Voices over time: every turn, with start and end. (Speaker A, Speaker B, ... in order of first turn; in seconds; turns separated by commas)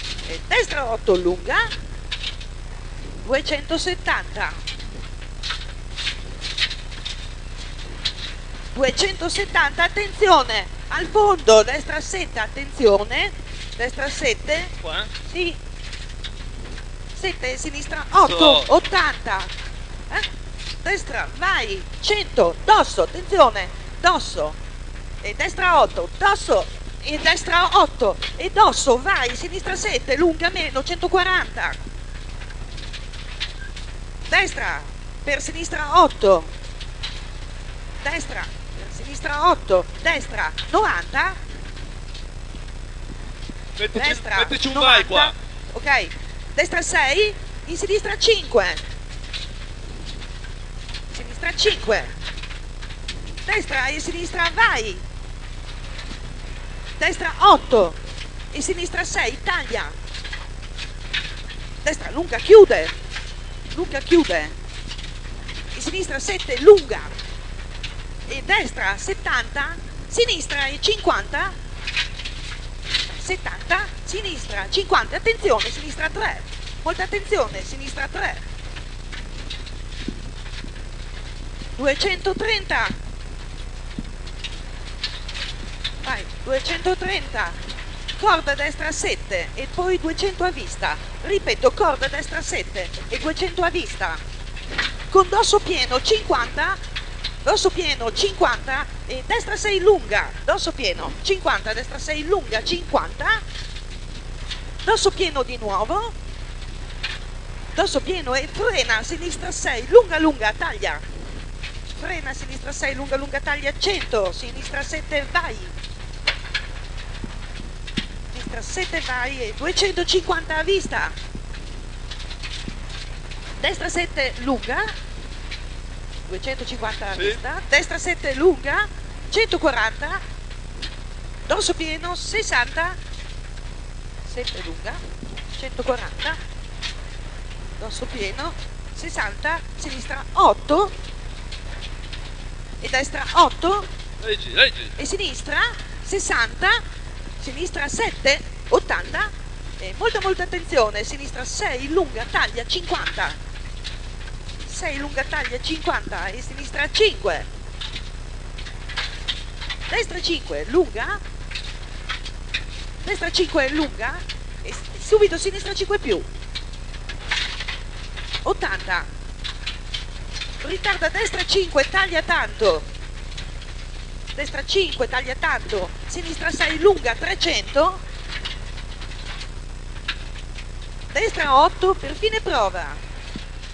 Speaker A: 0.3-1.7, Speaker A: 3.2-4.6, Speaker A: 8.7-15.6, Speaker B: 14.8-15.1, Speaker A: 17.1-19.5, Speaker B: 18.2-18.7, Speaker A: 20.8-24.6, Speaker A: 25.2-31.8, Speaker A: 34.3-36.5, Speaker A: 38.0-41.4, Speaker B: 43.8-45.3, Speaker A: 43.9-48.8, Speaker A: 51.1-52.1, Speaker A: 53.4-55.0, Speaker A: 57.0-58.0, Speaker A: 58.5-60.0, Speaker A: 61.8-63.0, Speaker A: 63.7-64.5, Speaker A: 65.7-67.1, Speaker A: 68.3-71.5, Speaker A: 73.0-78.4, Speaker A: 81.8-83.0, Speaker A: 86.0-87.6, Speaker A: 88.2-94.2, Speaker A: 95.1-96.8, Speaker A: 97.4-103.4, Speaker A: 104.8-106.1, Speaker A: 107.7-111.0, Speaker A: 112.0-115.7, Speaker A: 118.3-121.1, Speaker A: 123.6-124.9, Speaker A: 126.2-130.2, Speaker B: 127.1-127.4, Speaker A: 131.5-133.0, Speaker A: 134.2-135.0, Speaker A: 135.5-136.4, Speaker A: 137.8-140.9, Speaker A: 142.8-143.9, Speaker B: 144.2-144.9, Speaker A: 145.0-146.8, Speaker A: 147.4-153.4, Speaker A: 154.6-157.5, Speaker A: 159.9-161.2, Speaker A: 163.0-166.3, Speaker A: 168.4-169.1, Speaker A: 170.6-172.9, Speaker A: 174.3-178.0, Speaker A: 181.1-183.0